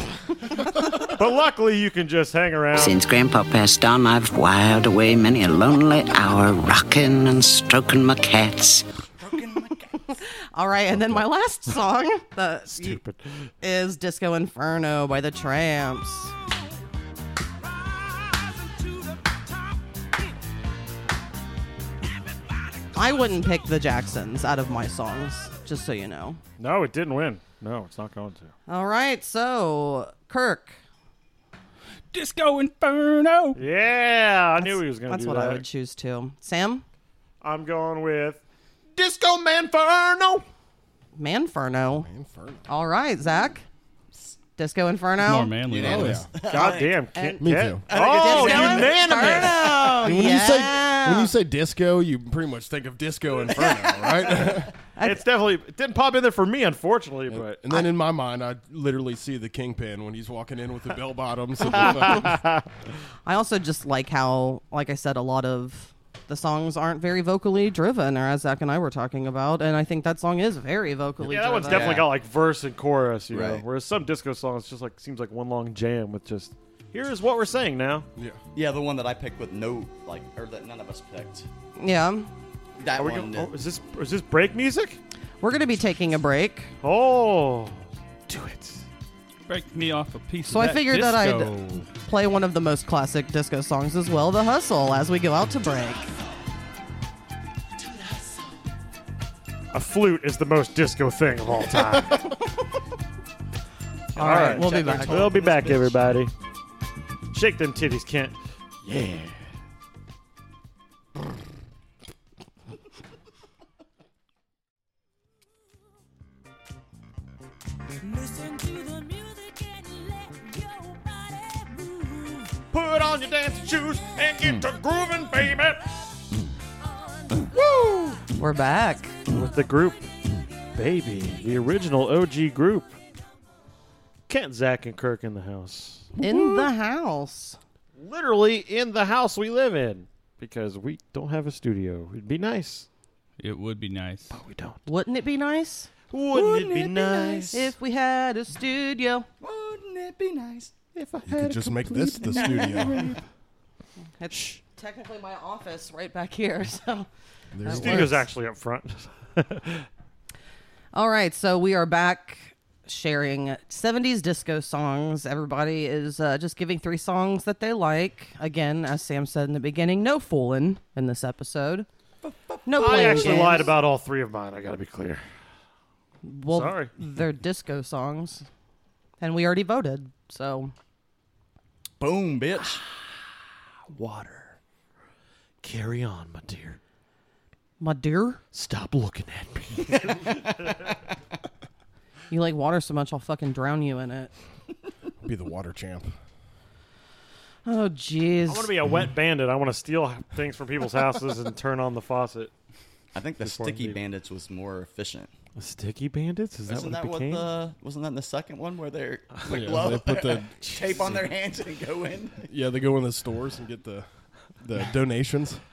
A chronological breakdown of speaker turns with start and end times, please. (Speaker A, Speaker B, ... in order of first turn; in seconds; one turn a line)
Speaker A: 1.0-3.0
Speaker B: 2.7-8.9
Speaker C: 9.2-10.1
Speaker D: 10.5-13.0
Speaker A: 12.7-13.2
Speaker D: 13.6-16.3
Speaker D: 22.9-26.4
Speaker A: 26.6-28.5
Speaker D: 28.7-30.8
Speaker E: 32.1-33.6
Speaker A: 33.6-35.6
Speaker D: 34.6-36.8
Speaker A: 37.4-38.4
Speaker A: 39.0-40.4
Speaker D: 41.2-42.1
Speaker F: 42.0-42.6
Speaker D: 42.7-43.6
Speaker D: 44.6-45.5
Speaker E: 45.2-46.2
Speaker C: 45.7-47.1
Speaker F: 45.8-46.4
Speaker A: 46.4-50.1
Speaker D: 47.1-51.3
Speaker F: 47.4-47.9
Speaker C: 47.9-49.8
Speaker F: 49.9-54.7
Speaker D: 55.0-55.2
Speaker A: 55.0-57.6
Speaker F: 57.3-62.4
Speaker A: 61.7-62.6
Speaker D: 63.3-72.0
Speaker A: 71.3-78.1
Speaker C: 71.7-72.1
Speaker C: 73.3-73.6
Speaker C: 78.5-81.5
Speaker D: 81.8-82.3
Speaker C: 82.8-83.5
Speaker A: 83.0-85.0
Speaker D: 85.4-86.7
Speaker A: 86.8-88.8
Speaker E: 89.5-91.7
Speaker D: 90.5-96.1
Speaker A: 99.7-102.3
Speaker C: 104.1-105.9
Speaker D: 104.2-105.4
Speaker A: 104.2-106.3
Speaker A: 107.3-109.5
Speaker A: 118.2-118.8
Speaker A: 122.7-125.8
Speaker A: 127.6-128.2
Speaker D: 128.2-129.2
Speaker A: 129.3-130.1
Speaker A: 130.8-133.0
Speaker A: 134.3-136.1
Speaker D: 136.2-137.6
Speaker A: 138.0-142.9
Speaker E: 143.4-144.3
Speaker A: 144.3-144.8
Speaker D: 144.9-145.9
Speaker A: 146.1-147.7
Speaker C: 146.3-147.4
Speaker D: 147.4-149.3
Speaker C: 149.4-150.7
Speaker A: 150.9-153.2
Speaker F: 151.2-153.0
Speaker C: 152.3-153.1
Speaker D: 154.2-157.1
Speaker A: 154.3-154.6
Speaker F: 157.5-158.3
Speaker D: 157.6-158.2
Speaker A: 157.7-159.9
Speaker D: 160.9-171.9
Speaker C: 172.2-173.6
Speaker D: 172.7-173.7
Speaker A: 172.8-175.2
Speaker D: 176.2-178.4
Speaker A: 176.5-176.9
Speaker D: 179.2-180.7
Speaker C: 182.0-182.8
Speaker A: 183.9-184.6
Speaker A: 185.6-186.8
Speaker D: 187.8-188.4
Speaker A: 188.5-190.2
Speaker C: 189.9-190.9
Speaker D: 192.3-194.3
Speaker F: 195.2-196.1
Speaker D: 197.7-198.8
Speaker A: 198.5-202.5
Speaker C: 203.1-205.3
Speaker A: 203.4-204.0
Speaker A: 205.6-207.5
Speaker C: 206.7-212.5
Speaker F: 209.5-210.6
Speaker A: 209.6-210.0
Speaker A: 210.7-211.3
Speaker F: 212.5-215.6